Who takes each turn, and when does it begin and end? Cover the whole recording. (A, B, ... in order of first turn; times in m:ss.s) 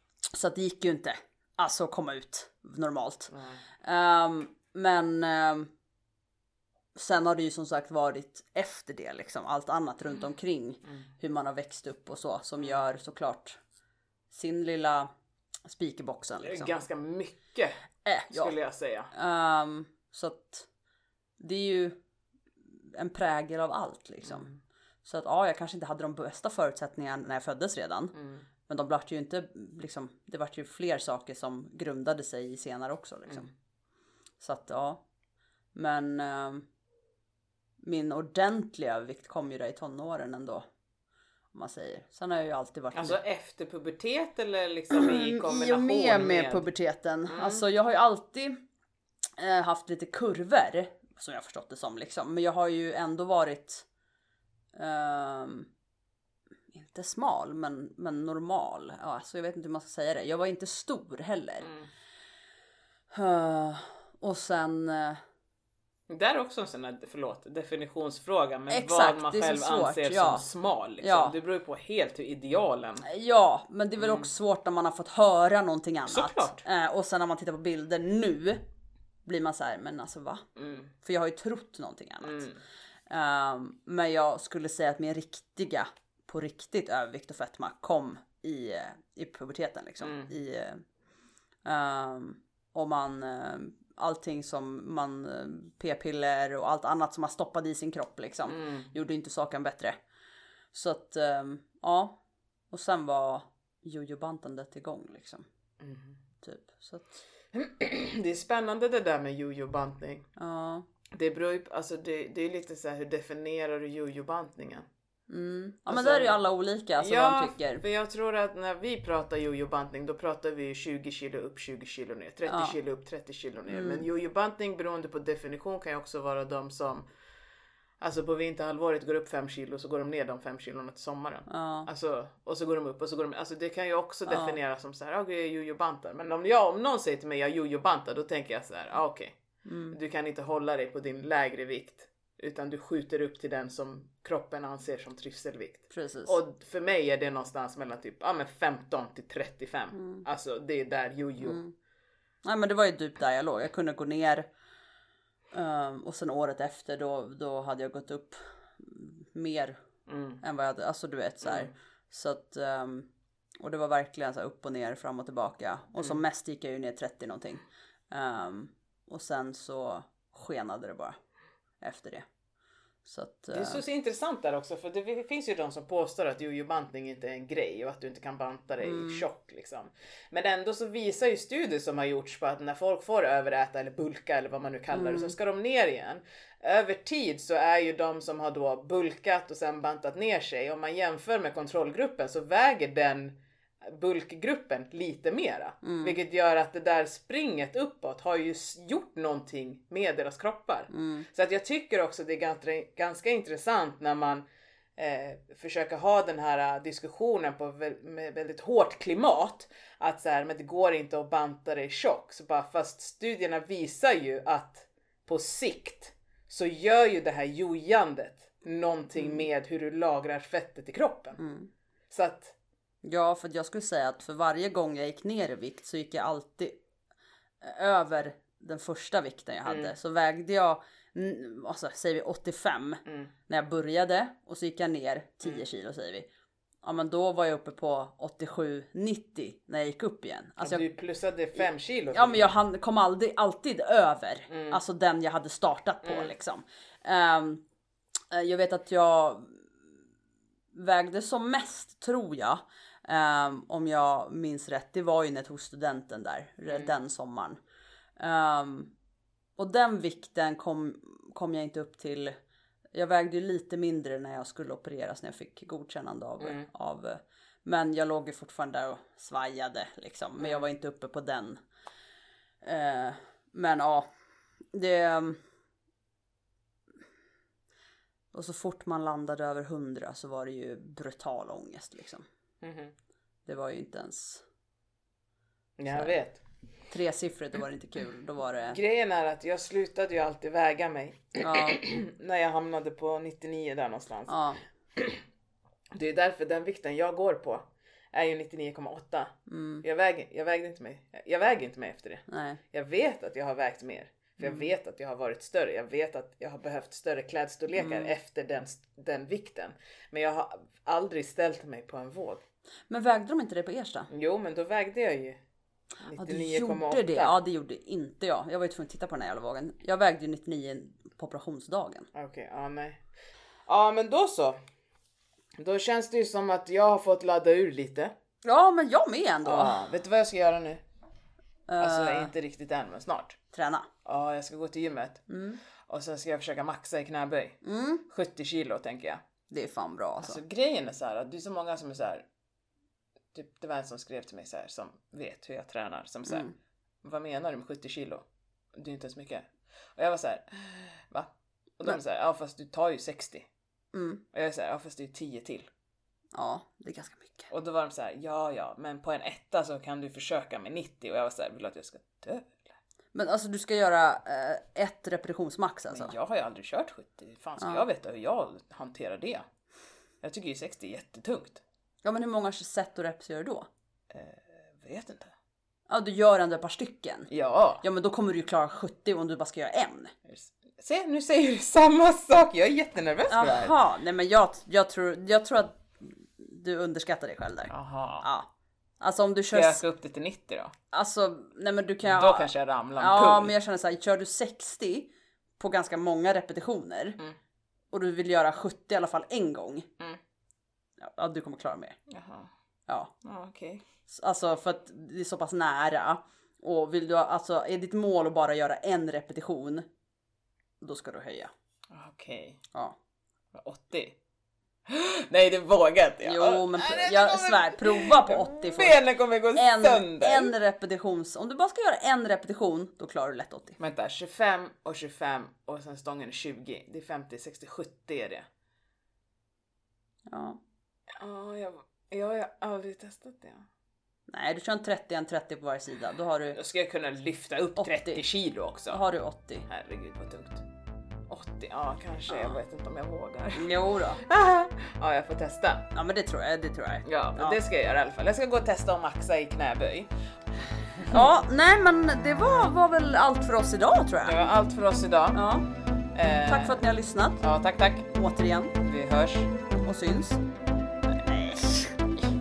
0:00.3-0:03.3 A
0:03.3-0:03.6 B
0:03.8-0:05.7 A
0:06.9-0:13.6 A
0:14.3-0:15.1 A
0:15.7-0:16.7 A
0:16.4-0:17.8 B
0:18.0-0:18.6 A
0:18.3-0:19.1 B
0:19.1-0:20.7 A
0:21.4-0:22.0 A
0:22.9-0:24.5 A
0:24.2-0:24.6 B
0:25.0-0:28.1 A
0:28.1-0:28.4 B
0:28.6-0:33.5 A
0:34.4-0:35.0 A
0:35.7-0:36.6 A
0:37.8-0:40.6 A
0:41.5-0:43.2 A
0:42.9-0:46.6 B
0:44.9-0:48.6 A
0:47.3-0:47.6 B
0:49.4-0:53.8 A
0:54.8-0:55.7 A
0:56.7-1:01.7 A
1:03.1-1:05.2 A
1:06.1-1:13.0 B
1:08.7-1:10.4 A
1:11.0-1:11.3 A
1:13.0-1:18.6 A
1:14.0-1:14.3 B
1:16.0-1:16.6 B
1:19.2-1:20.4 A
1:20.6-1:20.9 B
1:21.0-1:22.5 A
1:22.2-1:22.6 B
1:23.1-1:30.8 A
1:30.0-1:30.3 B
1:31.6-1:39.9 A
1:38.5-1:38.9 B
1:40.7-1:42.2 A
1:42.7-1:45.4 A
1:45.8-1:46.2 B
1:46.4-1:47.2 A
1:47.5-1:50.2 B
1:50.4-1:50.8 A
1:51.1-1:54.8 B
1:55.3-1:57.8 A
1:55.9-1:56.4 B
1:57.0-2:07.0 B
2:02.5-2:02.8 A
2:03.7-2:04.0 A
2:08.0-2:19.4 B
2:11.5-2:11.9 A
2:14.3-2:14.6 A
2:19.6-2:20.0 A
2:19.9-2:31.6 B
2:25.9-2:26.4 A
2:29.9-2:30.3 A
2:31.4-2:31.7 A
2:32.4-2:34.5 A
2:35.5-2:39.8 A
2:40.1-2:40.4 B
2:40.4-2:43.1 A
2:41.4-2:41.7 B
2:43.6-2:51.2 A
2:51.8-2:52.2 A
2:53.0-2:53.8 A
2:53.5-3:24.4 B
2:58.8-2:59.2 A
3:04.9-3:05.3 A
3:15.8-3:16.2 A
3:20.9-3:21.3 A
3:25.0-3:41.4 B
3:41.4-3:41.7 A
3:42.1-3:42.5 B
3:43.0-3:46.8 A
3:47.6-3:56.3 A
3:49.6-3:49.9 B
3:53.0-3:53.3 B
3:56.8-4:00.8 A
4:00.6-4:02.5 B
4:02.1-4:07.6 A
4:04.5-4:04.8 B
4:06.0-4:06.3 B
4:08.3-4:09.6 A
4:10.7-4:17.6 A
4:18.2-4:18.9 A
4:19.6-4:22.3 A
4:22.9-4:31.6 A
4:26.4-4:26.7 B
4:30.4-4:30.6 B
4:32.6-4:34.1 A
4:34.7-4:35.4 A
4:38.3-4:42.2 A
4:42.6-4:42.9 B
4:43.5-4:44.4 A
4:45.8-4:46.4 B
4:45.9-4:46.1 A
4:46.9-4:48.8 A
4:48.7-4:54.4 B
4:51.4-4:51.8 A
4:54.3-4:54.6 A
4:55.0-4:55.2 B
4:55.9-5:12.4 B
4:59.5-4:59.8 A
5:02.3-5:02.6 A
5:07.8-5:08.1 A
5:12.9-5:14.1 A
5:14.1-5:15.4 B
5:16.0-5:17.4 B
5:16.1-5:22.1 A
5:22.1-5:23.0 B
5:23.7-5:24.6 B
5:25.6-5:28.1 B
5:28.4-5:29.9 A
5:29.4-5:30.8 B
5:31.7-5:32.3 A
5:31.8-5:33.4 B
5:33.5-5:33.9 A
5:34.0-5:35.2 B
5:35.3-5:35.6 A
5:35.8-5:39.2 B
5:37.6-5:38.0 A
5:39.5-5:40.4 A
5:40.2-5:42.2 B
5:43.3-5:46.4 B
5:46.3-5:46.5 A
5:47.0-5:53.5 B
5:53.9-5:54.2 A
5:54.3-5:55.7 B
5:56.3-5:57.5 A
5:57.5-6:02.7 B
6:03.1-6:06.1 A
6:05.9-6:09.4 B
6:07.6-6:07.8 A
6:10.2-6:11.6 B
6:12.0-6:13.7 A
6:14.1-6:15.3 B
6:15.9-6:17.3 A
6:17.3-6:17.8 B
6:17.8-6:20.1 A
6:20.2-6:23.7 B
6:23.3-6:28.5 A
6:27.7-6:28.3 B
6:29.0-6:29.8 A
6:29.5-6:30.7 B
6:30.9-6:37.2 A
6:32.0-6:33.5 B
6:37.9-6:39.9 A
6:41.0-6:42.0 A
6:42.1-6:42.5 B
6:42.9-6:43.1 A
6:43.2-6:43.8 B
6:44.1-6:49.9 A
6:50.8-6:51.5 A
6:51.9-6:52.6 B
6:53.5-6:54.2 B
6:54.9-7:00.5 B
6:56.2-6:59.0 A
6:59.5-7:03.8 A
7:03.8-7:08.4 B
7:10.3-7:10.6 A
7:11.1-7:13.7 B
7:14.3-7:16.6 A
7:16.5-7:19.0 B
7:17.8-7:18.2 A
7:18.9-7:19.7 A
7:19.7-7:20.6 B
7:21.3-7:25.9 B
7:22.3-7:22.6 A
7:23.5-7:24.2 A
7:25.9-7:27.6 A
7:27.0-7:31.3 B
7:31.1-7:34.4 A
7:34.2-7:35.4 B
7:35.3-7:35.6 A
7:36.1-7:36.8 B
7:36.4-7:37.4 A
7:37.4-7:38.1 B
7:38.1-7:38.8 A
7:38.8-7:39.5 B
7:39.8-7:40.4 A
7:41.1-7:42.0 A